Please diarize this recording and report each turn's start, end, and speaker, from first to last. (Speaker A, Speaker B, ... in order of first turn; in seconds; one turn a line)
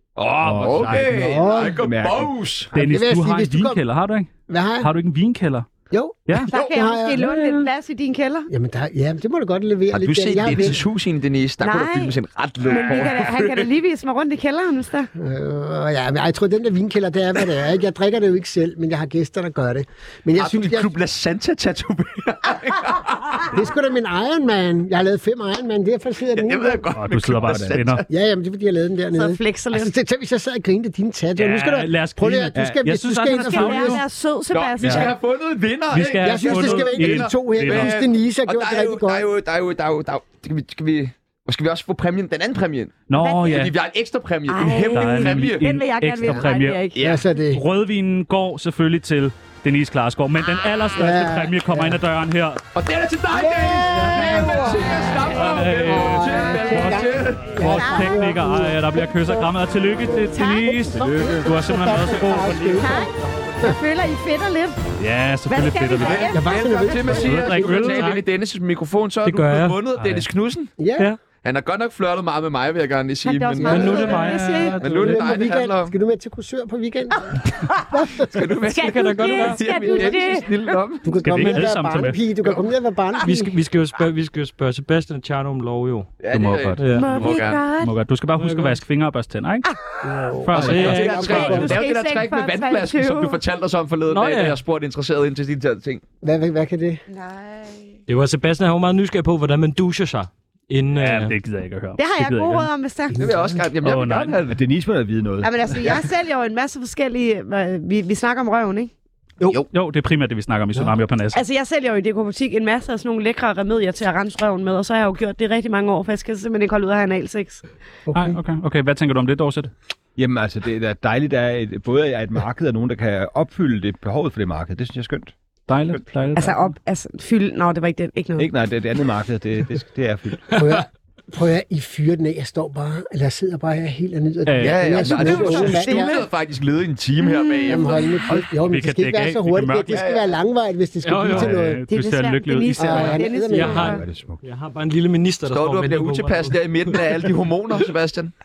Speaker A: 0.1-2.4
Speaker B: 0.4-2.7
Speaker C: 0.9-1.8
Speaker C: 2.7-3.8
Speaker D: 2.7-5.7
Speaker C: 4.5-4.9
Speaker C: 5.9-7.5
Speaker E: 6.5-8.5
Speaker C: 8.5-10.8
Speaker B: 9.9-13.7
Speaker E: 11.6-15.1
Speaker C: 15.2-20.9
Speaker B: 20.3-23.6
Speaker C: 23.5-26.9
Speaker B: 26.3-28.0
Speaker D: 26.9-28.0
Speaker A: 27.4-27.8
Speaker C: 28.1-34.0
Speaker E: 29.1-29.9
Speaker D: 31.3-34.0
Speaker E: 33.4-35.1
Speaker B: 34.5-45.6
Speaker D: 34.8-35.1
Speaker D: 35.9-38.0
Speaker C: 36.2-39.3
Speaker D: 43.1-43.7
Speaker E: 43.1-43.7
Speaker E: 44.5-47.0
Speaker D: 44.9-46.8
Speaker B: 46.9-47.2
Speaker C: 47.0-47.6
Speaker D: 47.5-52.6
Speaker E: 50.5-50.9
Speaker C: 50.9-52.0
Speaker B: 52.7-57.5
Speaker E: 53.4-55.2
Speaker C: 53.5-55.0
Speaker D: 55.3-63.1
Speaker E: 56.0-58.2
Speaker C: 56.4-59.3
Speaker C: 60.0-63.7
Speaker E: 60.3-61.2
Speaker E: 62.8-64.8
Speaker D: 65.0-66.3
Speaker E: 65.5-66.5
Speaker B: 66.0-70.7
Speaker C: 66.3-67.9
Speaker D: 67.1-68.1
Speaker F: 67.9-68.2
Speaker F: 69.2-69.8
Speaker D: 70.0-70.2
Speaker C: 70.8-71.1
Speaker F: 71.0-71.2
Speaker B: 71.3-74.2
Speaker E: 73.2-74.8
Speaker C: 73.6-78.4
Speaker F: 73.7-75.0
Speaker D: 74.0-75.2
Speaker B: 74.8-76.0
Speaker E: 77.3-77.9
Speaker B: 78.2-81.7
Speaker E: 78.7-80.8
Speaker F: 78.8-79.7
Speaker C: 81.0-83.5
Speaker D: 81.2-82.2
Speaker F: 83.2-86.1
Speaker B: 86.2-87.6
Speaker D: 86.3-86.8
Speaker F: 86.8-87.2
Speaker E: 86.9-87.9
Speaker D: 87.8-89.7
Speaker F: 88.4-88.8
Speaker C: 90.0-91.8
Speaker D: 90.4-91.5
Speaker B: 90.6-96.0
Speaker F: 90.6-91.7
Speaker E: 91.1-93.4
Speaker F: 94.1-94.6
Speaker C: 96.2-97.0
Speaker E: 97.1-98.0
Speaker F: 98.1-101.3
Speaker D: 101.0-102.7
Speaker E: 102.0-103.2
Speaker C: 103.2-103.6
Speaker B: 103.2-104.5
Speaker D: 103.8-104.4
Speaker A: 104.4-106.0
Speaker E: 105.4-108.9
Speaker D: 109.7-111.4
Speaker E: 111.3-117.6
Speaker C: 118.1-118.4
Speaker D: 118.1-119.7
Speaker A: 120.2-125.3
Speaker D: 125.7-126.7
Speaker E: 126.3-128.5
Speaker A: 128.4-130.6
Speaker C: 130.6-136.2
Speaker D: 134.4-135.8
Speaker B: 134.6-138.2
Speaker E: 135.0-136.3
Speaker E: 137.2-138.2
Speaker C: 137.6-141.8
Speaker D: 138.3-140.0
Speaker B: 139.9-140.3
Speaker D: 141.0-143.2
Speaker E: 141.9-144.0
Speaker C: 142.8-144.0
Speaker F: 143.5-147.1
Speaker A: 143.6-144.4
Speaker B: 145.5-148.3